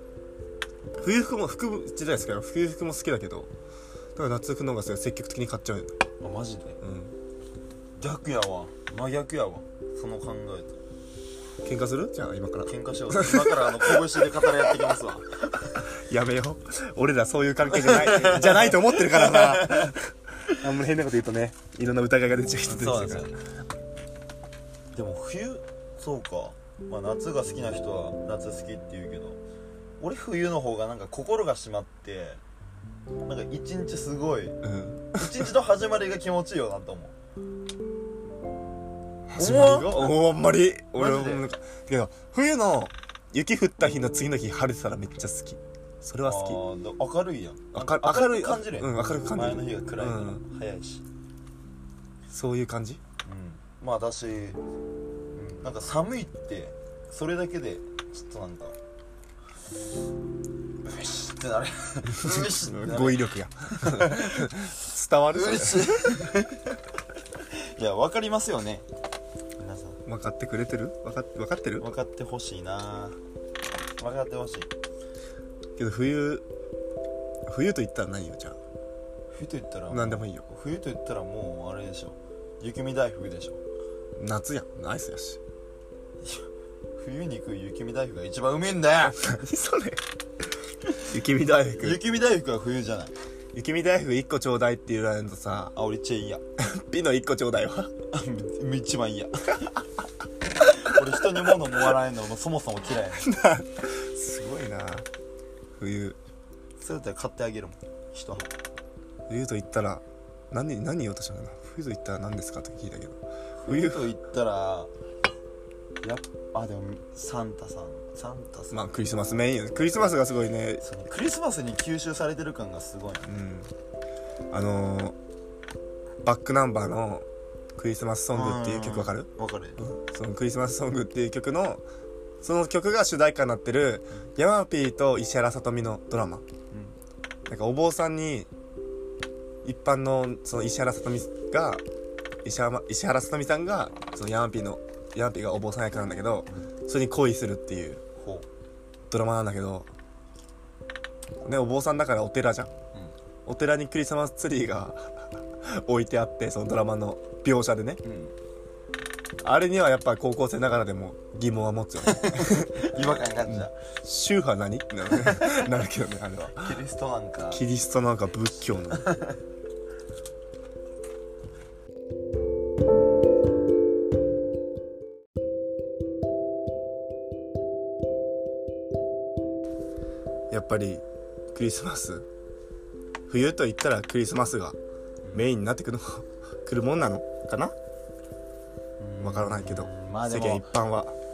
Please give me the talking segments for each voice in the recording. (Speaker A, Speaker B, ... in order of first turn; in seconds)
Speaker A: 1.0-3.5, 4.2-6.0, 6.8-7.1, 11.6-14.7, 15.9-23.3, 34.6-35.5, 39.3-46.6, 47.7-50.4, 52.3-53.0, 62.2-66.2, 70.0-71.8, 75.8-76.4, 77.5-78.6, 79.9-80.4, 84.2-85.4, 89.1-90.0, 91.0-92.0, 93.5-95.7, 96.6-97.9, 103.2-105.0, 105.8-106.2, 109.3-114.1, 118.7-120.8, 123.2-123.7, 124.5-125.2, 126.2-131.8, 132.4-136.4, 137.5-138.5, 139.6-141.8, 142.4-148.0, 149.1-149.9, 151.4-152.7, 153.4-158.0, 159.4-166.7, 167.5-169.1, 180.5-182.2, 183.3-184.8, 185.3-187.7, 189.2-191.1
Speaker B: 6.2-6.8, 8.0-10.8, 12.7-15.8, 17.6-19.9, 22.7-23.4, 24.9-29.4, 30.0-32.4, 33.2-34.6, 35.1-37.1, 39.4-40.2, 41.0-41.4, 46.2-51.0, 53.2-54.6, 55.3-58.8, 60.8-66.7, 67.6-68.8, 69.6-70.0, 71.8-73.2, 74.0-74.7, 79.3-83.6, 87.0-89.4, 91.7-93.1, 95.7-96.4, 98.1-99.7, 100.7-103.3, 106.8-108.5, 113.6-114.9, 116.0-118.8, 120.8-123.3, 128.3-129.8, 148.2-148.4, 158.0-158.3, 162.0-163.7, 165.1-165.7, 166.4-167.6, 168.9-169.3, 185.2-185.5, 189.0-190.7